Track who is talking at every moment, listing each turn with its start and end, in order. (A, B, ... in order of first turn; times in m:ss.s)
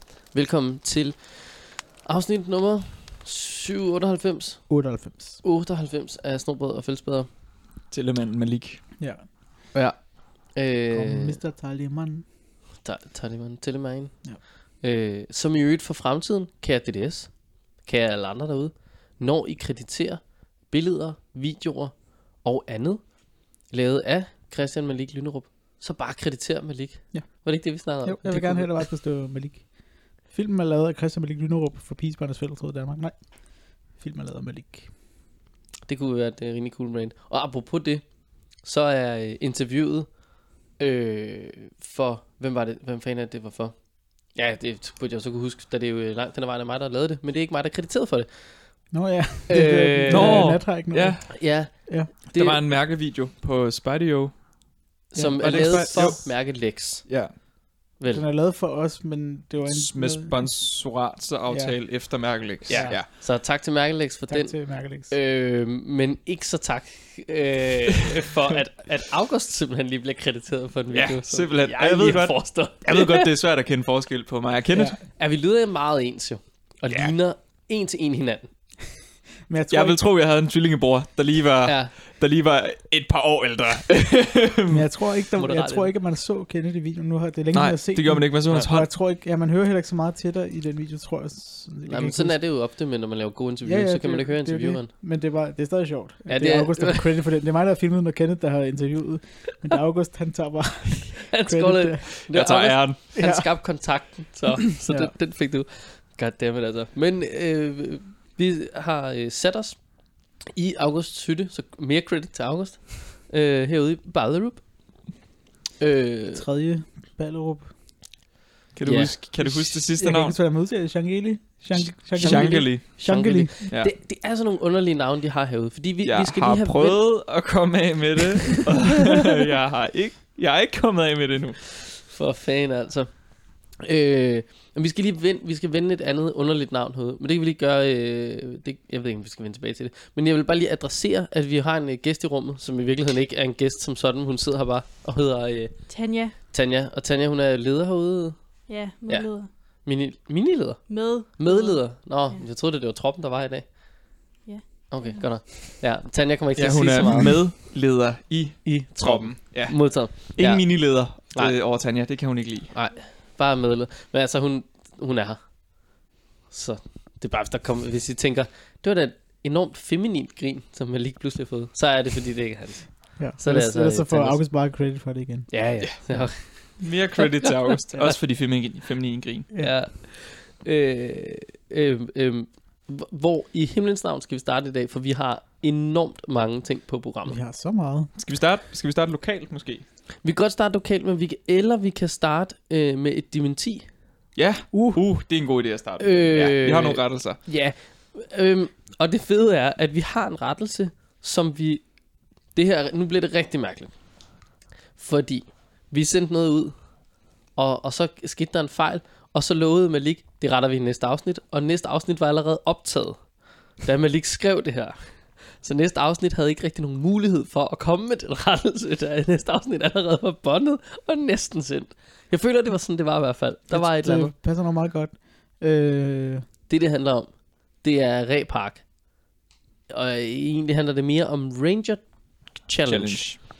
0:00.3-0:04.6 A
0:04.7-0:05.4 B
0:05.4-0:07.3 A
0:07.9-0:08.8 C
0:09.0-0:09.2 B
0:10.5-0:11.4 A
0:10.9-0:12.2 B
0:12.8-0:14.1 A
0:14.8-0:17.3 A
0:17.8-0:21.9 A
0:22.4-0:23.0 A
0:23.7-0:28.8 A
0:28.0-0:29.6 B
0:30.3-0:33.1 B
0:34.0-0:34.9 B
0:35.9-0:38.0 A
0:38.6-0:40.1 A
0:40.8-0:43.7 A
0:44.3-0:48.3 A
0:48.9-0:52.1 B
0:49.5-0:50.5 A
0:50.1-0:51.4 C
0:51.3-0:52.6 A
0:52.3-0:54.3 C
0:55.1-0:57.0 A
0:55.2-0:56.2 B
0:55.4-0:56.4 C
0:57.0-0:57.3 C
0:58.0-0:58.2 A
0:58.1-1:00.5 B
0:59.7-1:03.1 C
1:01.5-1:01.8 B
1:02.7-1:04.6 A
1:02.7-1:03.0 B
1:04.3-1:05.1 B
1:05.1-1:13.3 A
1:10.9-1:15.0 C
1:14.7-1:15.0 B
1:15.2-1:18.5 A
1:19.5-1:20.0 B
1:19.7-1:24.8 C
1:21.6-1:21.9 A
1:24.7-1:32.4 B
1:25.4-1:25.9 A
1:27.5-1:28.9 C
1:31.8-1:34.9 A
1:33.6-1:42.1 B
1:36.3-1:37.2 A
1:41.2-1:49.8 A
1:42.3-1:43.0 C
1:43.1-1:43.5 B
1:44.6-1:45.1 B
1:50.5-1:54.6 A
1:55.8-1:56.4 A
1:56.3-1:57.7 B
1:58.8-2:00.4 C
1:58.8-1:59.1 A
1:59.4-2:03.5 B
2:02.2-2:07.0 A
2:02.2-2:03.1 C
2:06.0-2:11.6 C
2:08.4-2:09.0 A
2:12.0-2:13.1 A
2:13.8-2:25.7 A
2:25.9-2:26.3 D
2:26.5-2:28.4 A
2:28.7-2:29.5 D
2:29.8-2:33.6 A
2:30.9-2:32.4 D
2:34.4-2:35.3 D
2:34.9-2:37.4 A
2:36.6-2:42.7 C
2:38.6-2:40.7 A
2:42.7-2:45.4 A
2:46.5-2:54.4 A
2:53.2-2:55.5 B
2:55.5-2:58.2 A
2:56.8-2:59.5 C
2:59.5-3:07.4 A
3:07.2-3:08.1 B
3:08.2-3:09.8 C
3:10.2-3:13.8 A
3:14.4-3:17.4 C
3:14.7-3:15.0 B
3:16.0-3:21.8 A
3:22.5-3:23.9 A
3:25.0-3:26.7 A
3:27.6-3:33.2 A
3:33.8-3:35.0 A
3:35.6-3:44.3 A
3:43.7-3:46.4 B
3:46.7-3:47.3 A
3:47.8-3:48.8 A
3:49.9-3:52.0 A
3:52.7-3:53.2 A
3:52.8-3:53.4 C